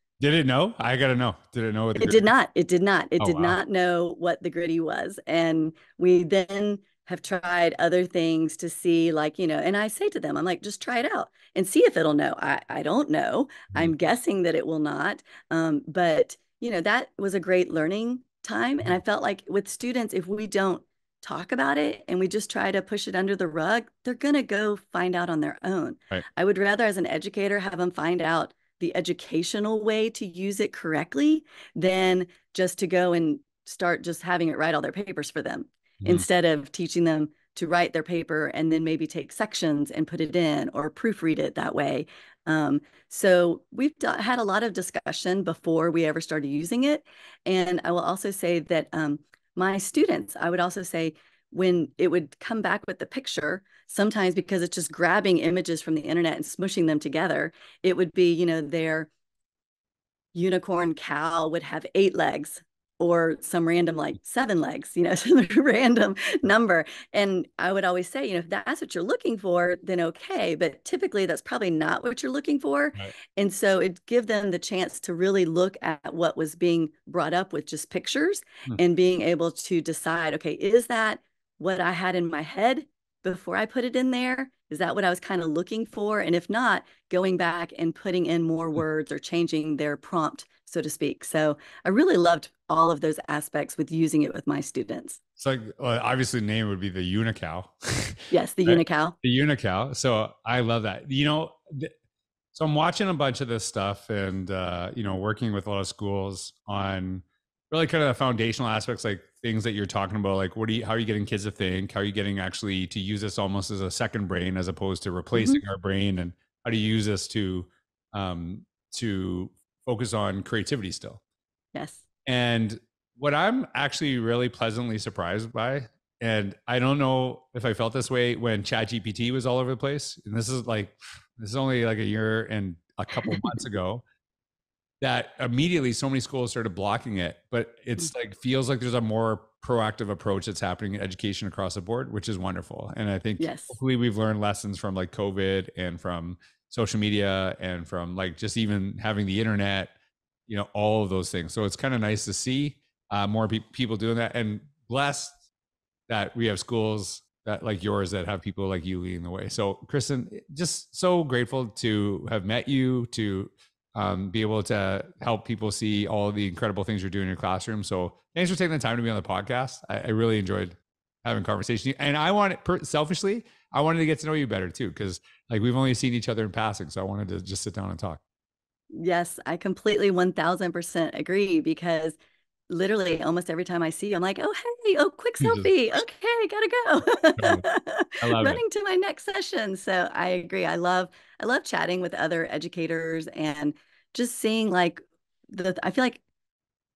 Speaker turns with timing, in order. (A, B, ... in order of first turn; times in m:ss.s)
0:00.2-0:02.3 A
0:02.0-0:59.1 B
0:03.2-0:03.6 A
1:00.3-1:35.2 B
1:35.4-1:41.9 A
1:38.3-1:39.2 B
1:42.5-2:01.2 A
1:55.3-1:55.6 B
2:01.7-2:02.0 B
2:02.3-2:14.0 A
2:13.3-2:13.6 B
2:15.0-2:29.9 A
2:23.4-2:23.8 B
2:30.5-2:35.4 A
2:36.1-2:58.2 A
2:58.9-3:02.2 B
3:02.7-3:16.2 B
3:05.4-3:05.7 A
3:07.4-3:07.6 A
3:08.2-3:08.6 A